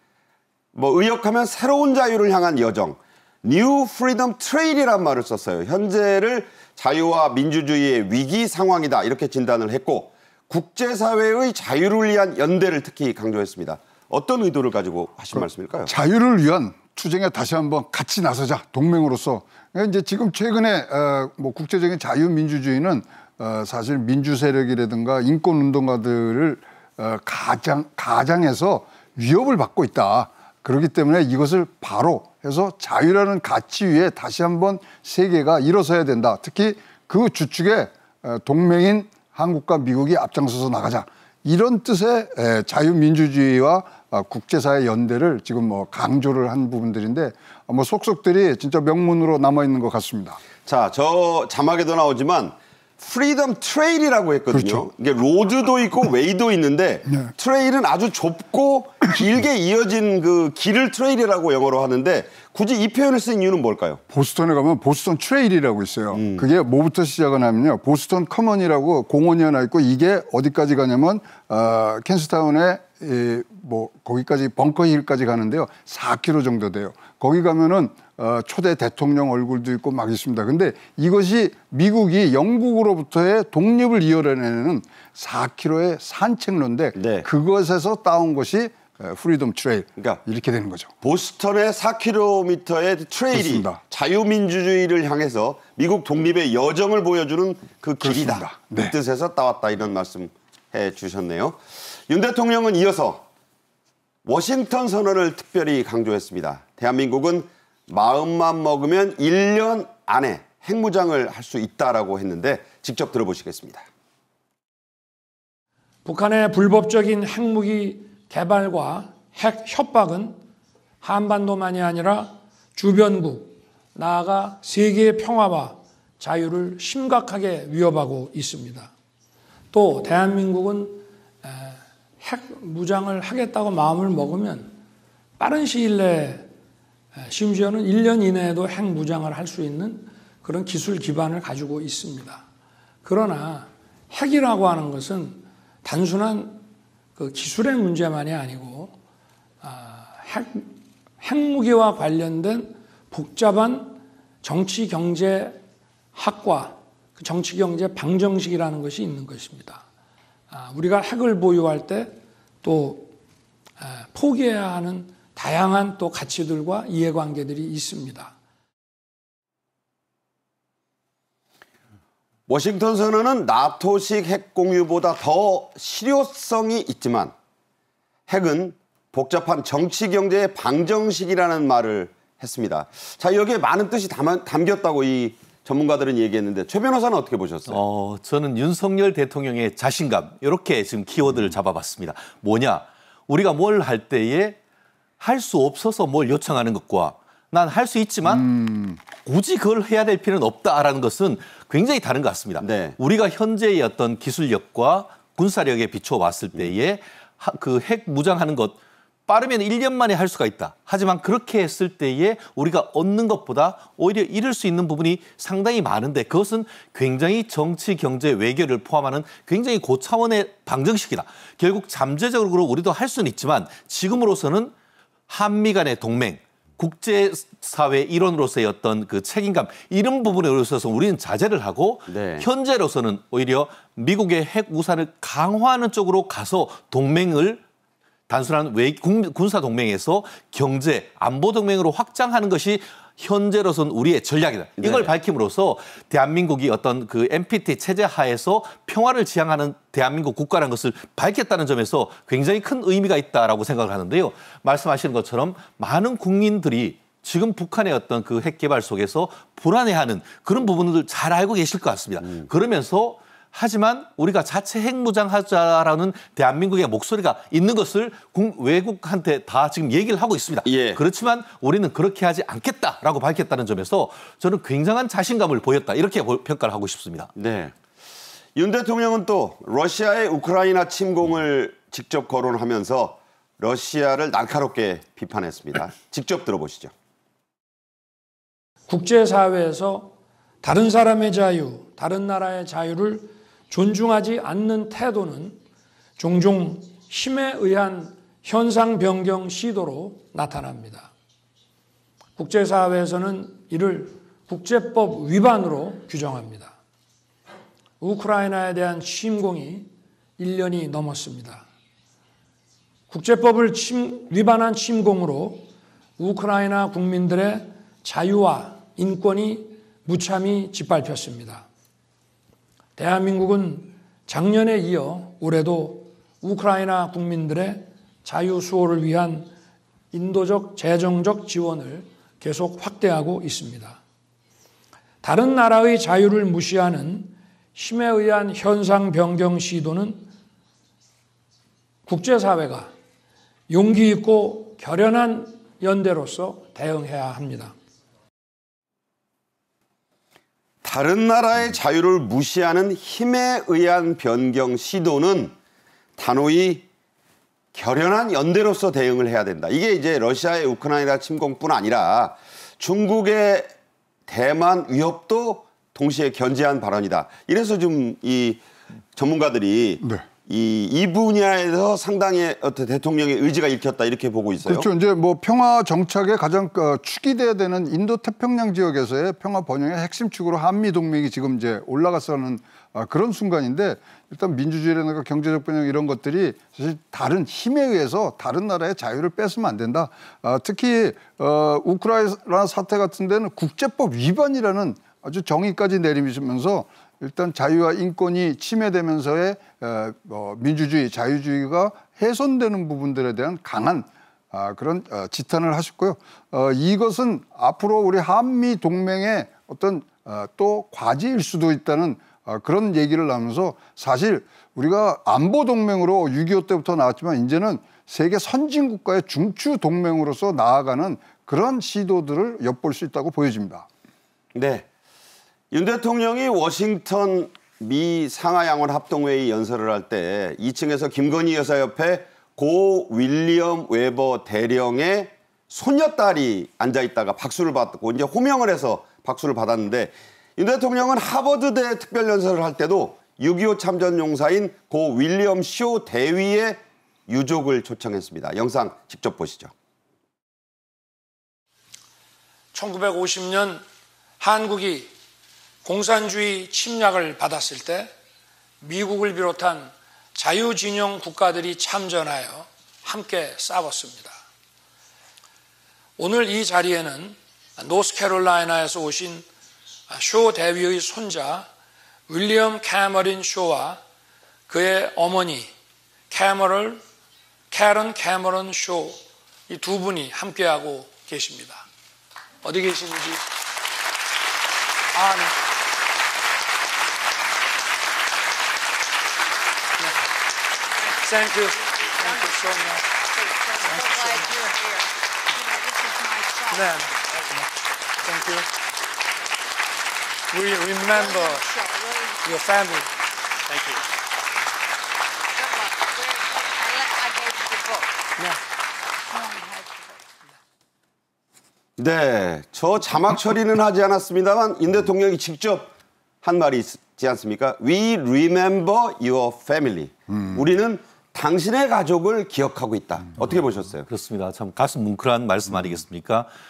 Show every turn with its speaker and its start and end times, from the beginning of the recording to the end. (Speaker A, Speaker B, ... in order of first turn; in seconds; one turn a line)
Speaker A: 0.7-15.9
Speaker B: 15.3-50.4
Speaker A: 50.6-64.0
Speaker B: 54.5-54.9
Speaker B: 64.1-90.9
Speaker A: 66.1-66.5
Speaker A: 87.0-87.3
Speaker A: 91.0-103.2
Speaker B: 93.3-93.8
Speaker B: 98.0-98.9
Speaker A: 104.3-113.8
Speaker C: 116.0-120.4
Speaker C: 121.0-128.9
Speaker C: 129.7-134.8
Speaker C: 135.4-136.5
Speaker C: 137.2-142.4
Speaker C: 143.1-146.7
Speaker C: 147.2-148.9
Speaker C: 149.6-155.6
Speaker C: 156.2-159.8
Speaker C: 160.5-163.2
Speaker C: 163.8-168.3
Speaker A: 172.5-177.3
Speaker A: 178.3-187.8
Speaker D: 187.7-194.6
Speaker D: 195.2-198.5
Speaker B: 198.3-199.0
Speaker D: 199.2-224.7
Speaker A: 202.6-203.0
Speaker D: 225.3-237.6
Speaker A: 232.1-232.5
Speaker D: 238.3-277.3
Speaker A: 244.8-245.1
Speaker A: 270.6-271.0
Speaker A: 277.4-277.7
Speaker A: 278.6-286.9
Speaker C: 288.9-295.6
Speaker C: 296.2-301.1
Speaker C: 302.4-306.7
Speaker C: 308.0-311.6
Speaker C: 313.1-321.7
Speaker C: 323.0-329.5
Speaker C: 330.1-334.0
Speaker C: 335.2-340.3
Speaker C: 342.1-342.9
Speaker C: 343.7-347.8
Speaker A: 350.8-355.5
Speaker A: 356.2-356.9
Speaker A: 357.7-363.7
Speaker A: 364.3-368.6
Speaker A: 369.1-374.9
Speaker B: 374.6-423.9
Speaker A: 424.5-424.9
Speaker A: 425.7-449.7
Speaker C: 452.7-453.8
Speaker C: 454.4-455.1
Speaker C: 455.8-458.1
Speaker C: 458.8-464.4
Speaker C: 466.2-469.5
Speaker C: 470.1-471.7
Speaker C: 472.3-474.0
Speaker C: 474.7-475.7
Speaker C: 476.3-477.0
Speaker C: 477.7-481.9
Speaker C: 482.6-483.4
Speaker C: 485.1-485.6
Speaker E: 491.0-497.1
Speaker C: 491.2-493.1
Speaker C: 493.9-494.7
Speaker C: 496.7-497.7
Speaker C: 498.2-498.7
Speaker C: 500.5-501.6
Speaker E: 501.0-502.9
Speaker C: 502.4-503.1
Speaker E: 505.5-508.5
Speaker E: 509.3-510.2
Speaker A: 512.0-515.9
Speaker A: 516.4-524.1
Speaker D: 524.1-526.5